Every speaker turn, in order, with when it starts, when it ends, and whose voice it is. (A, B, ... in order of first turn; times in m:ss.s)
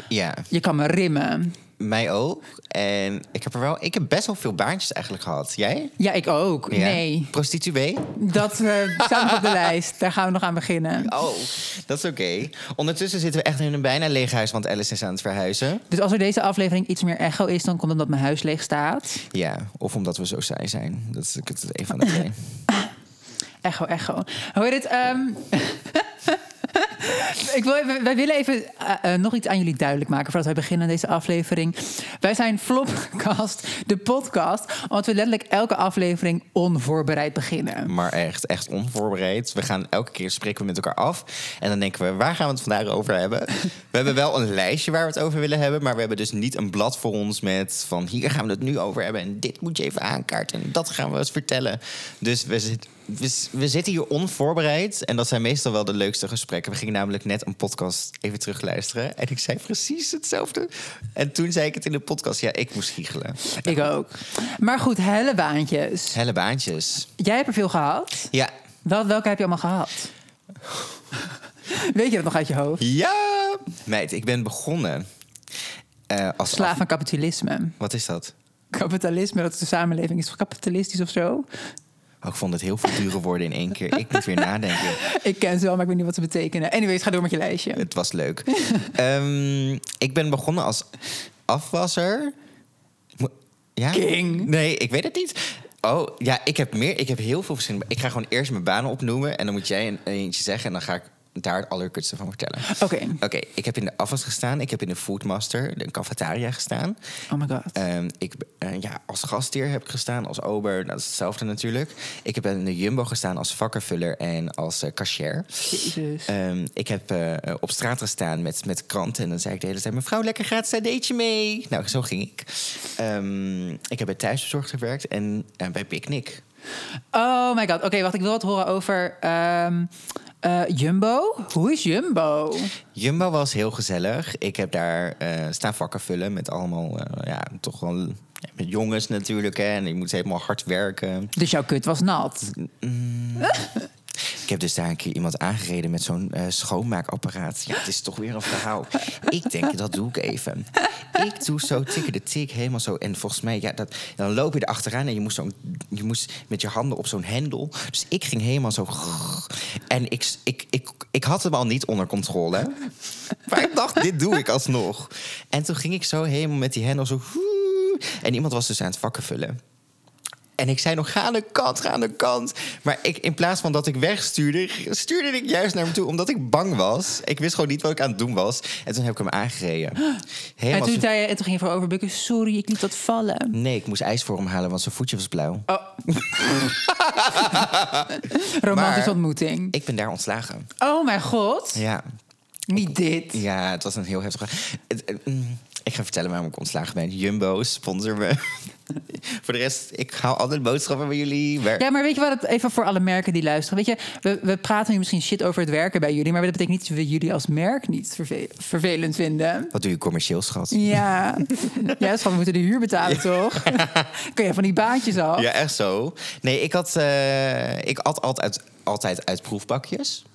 0:00.1-0:00.5 A
0:00.5-0:01.6 B
0:01.8-0:05.9 A
0:06.0-0:07.3 B
0:06.7-0:08.2 A
0:08.2-0:11.1 B
0:09.0-0:09.5 A
0:11.0-0:15.8 A
0:15.9-0:19.2 B
0:19.3-0:22.4 A
0:23.6-0:38.0 B
0:37.9-1:04.0 A
1:03.4-1:06.2 B
1:06.1-1:07.1 A
1:07.2-1:08.3 B
1:08.8-1:10.1 B
1:11.7-1:12.8 B
1:12.8-1:15.1 A
1:16.1-1:16.8 A
1:16.5-1:17.8 B
1:17.8-1:18.3 A
1:18.7-1:21.5 B
1:22.2-1:25.0 A
1:24.4-1:27.9 B
1:27.7-1:30.9 A
1:28.5-1:28.9 B
1:31.5-1:32.4 A
1:33.2-1:47.0 A
1:33.9-1:34.5 B
1:42.6-1:43.2 B
1:47.3-1:47.8 B
1:47.7-2:06.4 A
1:55.7-1:56.3 B
2:07.1-2:12.8 B
2:12.9-2:21.3 A
2:21.4-2:22.5 B
2:22.5-2:23.7 A
2:24.3-2:42.8 A
2:43.5-2:49.6 A
2:50.6-3:01.1 A
3:00.7-3:03.6 B
3:03.5-3:09.2 A
3:05.7-3:06.7 B
3:08.2-3:09.8 B
3:09.7-3:10.7 A
3:10.8-3:11.8 B
3:11.8-3:12.0 A
3:12.7-3:13.4 B
3:12.8-3:21.8 A
3:21.8-3:29.7 B
3:29.7-3:32.0 A
3:30.7-3:35.5 B
3:33.0-3:34.1 A
3:35.3-3:40.2 A